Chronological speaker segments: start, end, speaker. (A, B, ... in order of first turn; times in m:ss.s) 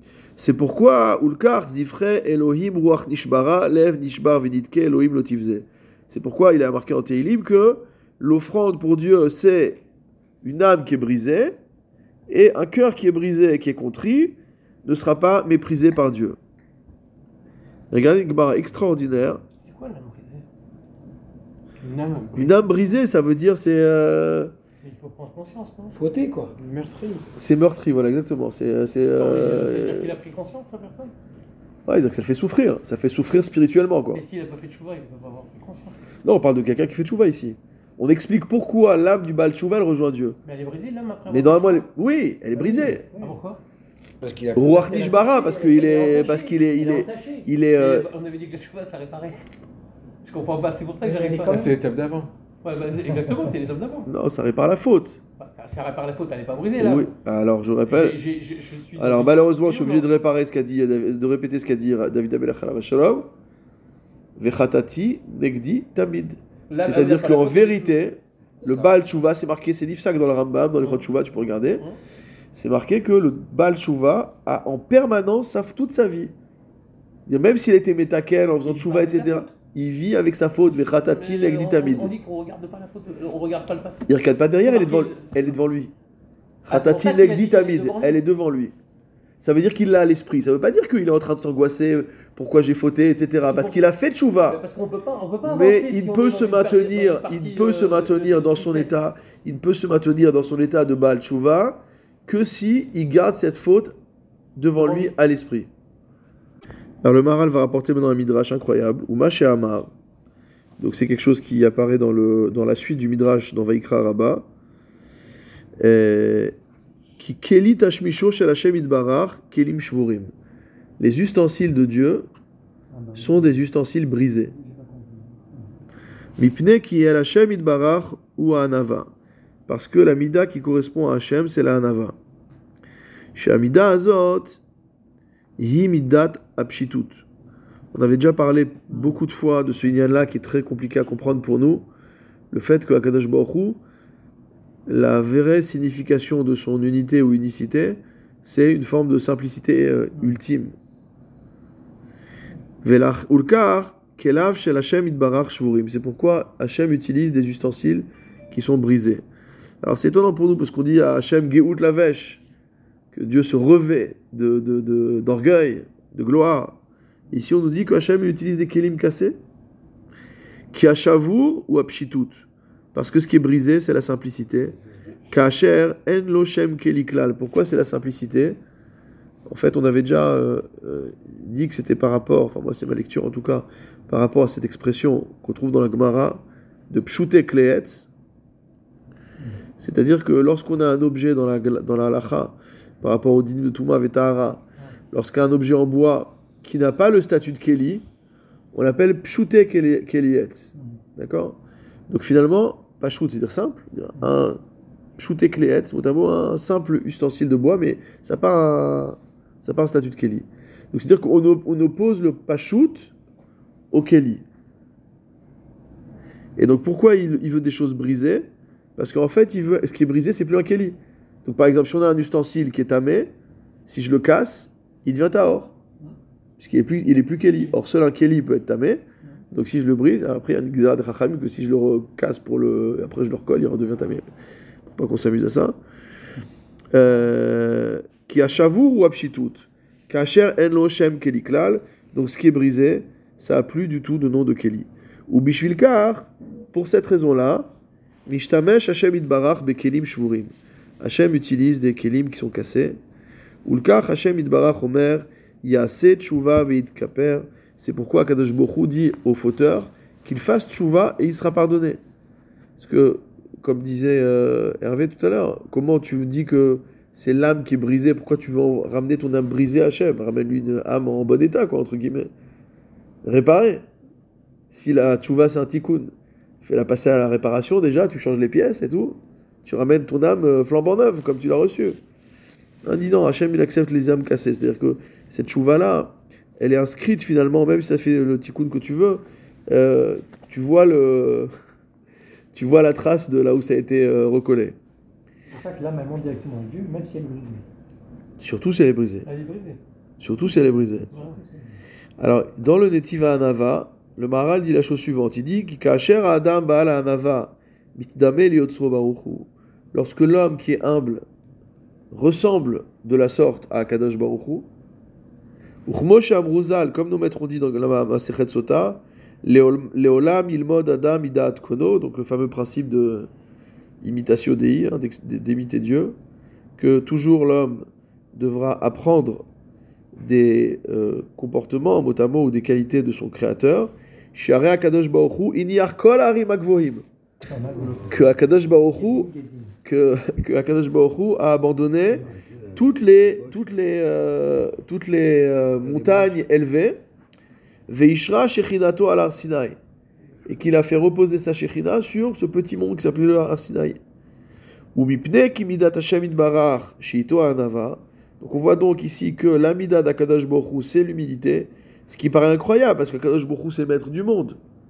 0:00.4-0:09.8 A
0:10.4-0:11.6 A
0:12.3-0:16.4 A
0:17.9-0:19.4 A
0:19.6-0:20.4 B
0:21.8-0:22.7 C
0:22.4-0:24.5 A
0:24.8-0:26.0 B
0:25.9-0:26.5 D
0:26.6-0:27.3 C
0:27.4-0:30.1 A
0:29.2-0:31.1 B
0:31.9-0:34.2 A
0:34.1-0:36.0 B
0:36.2-0:40.4 A
0:40.4-0:41.9 B
0:41.3-0:43.1 A
0:42.5-0:43.4 E
0:43.2-0:43.6 B
0:44.2-0:45.1 D
0:44.6-0:48.1 A
0:44.6-0:47.5 E
0:47.8-0:49.4 B
0:50.2-0:51.6 B
0:51.0-0:51.8 E
0:51.5-0:52.3 C
0:52.6-0:54.1 B
0:53.1-0:53.5 E
0:54.1-0:55.2 A
0:55.4-0:57.1 B
0:56.8-0:58.2 A
0:57.9-1:00.1 B
0:59.0-1:03.3 A
1:04.4-1:11.8 A
1:06.7-1:08.0 B
1:08.6-1:09.0 D
1:10.8-1:11.1 B
1:11.6-1:12.0 B
1:12.5-1:16.3 A
1:17.3-1:22.1 A
1:18.6-1:19.5 B
1:20.7-1:25.6 B
1:24.1-1:25.9 A
1:26.6-1:28.8 A
1:26.7-1:28.2 B
1:29.4-1:34.6 A
1:33.4-1:39.1 B
1:35.4-1:44.0 A
1:44.6-1:45.7 A
1:44.8-1:45.1 B
1:47.0-1:49.9 A
1:50.8-1:54.4 A
1:55.8-1:56.5 A
1:57.2-2:00.3 A
2:01.0-2:02.3 A
2:02.9-2:03.6 E
2:03.2-2:04.5 A
2:04.5-2:05.7 E
2:06.4-2:09.1 A
2:09.7-2:12.2 A
2:13.4-2:14.6 A
2:15.6-2:17.2 A
2:17.9-2:21.9 A
2:18.9-2:19.2 B
2:22.5-2:23.8 A
2:24.9-2:30.8 A
2:32.8-2:39.2 A
2:39.8-2:42.4 A
2:43.1-2:46.8 A
2:47.3-2:49.4 A
2:50.7-2:54.8 A
2:55.3-2:58.6 A
2:59.5-3:08.1 A
3:09.8-3:18.0 A
3:18.7-3:21.6 A
3:22.1-3:24.6 A
3:25.2-3:33.1 A
3:33.9-3:34.4 A
3:36.6-3:43.3 A
3:43.9-3:45.7 A
3:46.6-3:54.2 A
3:54.9-3:55.8 A
3:56.9-4:07.7 A
4:08.3-4:13.0 A
4:13.6-4:22.0 A
4:22.8-4:32.3 A
4:33.2-4:33.8 A
4:34.7-4:42.0 A
4:42.8-4:51.5 A
4:52.5-4:54.8 A
4:55.5-4:57.6 E
4:58.4-4:59.3 A
4:59.3-4:59.8 B
5:00.2-5:01.1 A
5:01.1-5:01.8 E
5:01.1-5:01.4 B
5:02.2-5:11.2 A
5:12.1-5:14.7 A
5:15.9-5:23.3 A
5:24.0-5:26.2 A
5:26.8-5:29.4 A
5:30.2-5:37.0 A
5:37.5-5:38.3 E
5:38.1-5:39.3 A
5:38.9-5:39.8 E
5:39.8-5:47.0 A
5:42.1-5:43.6 D
5:45.8-5:46.4 D
5:47.9-5:49.8 A
5:50.5-5:54.0 A
5:55.0-6:04.6 A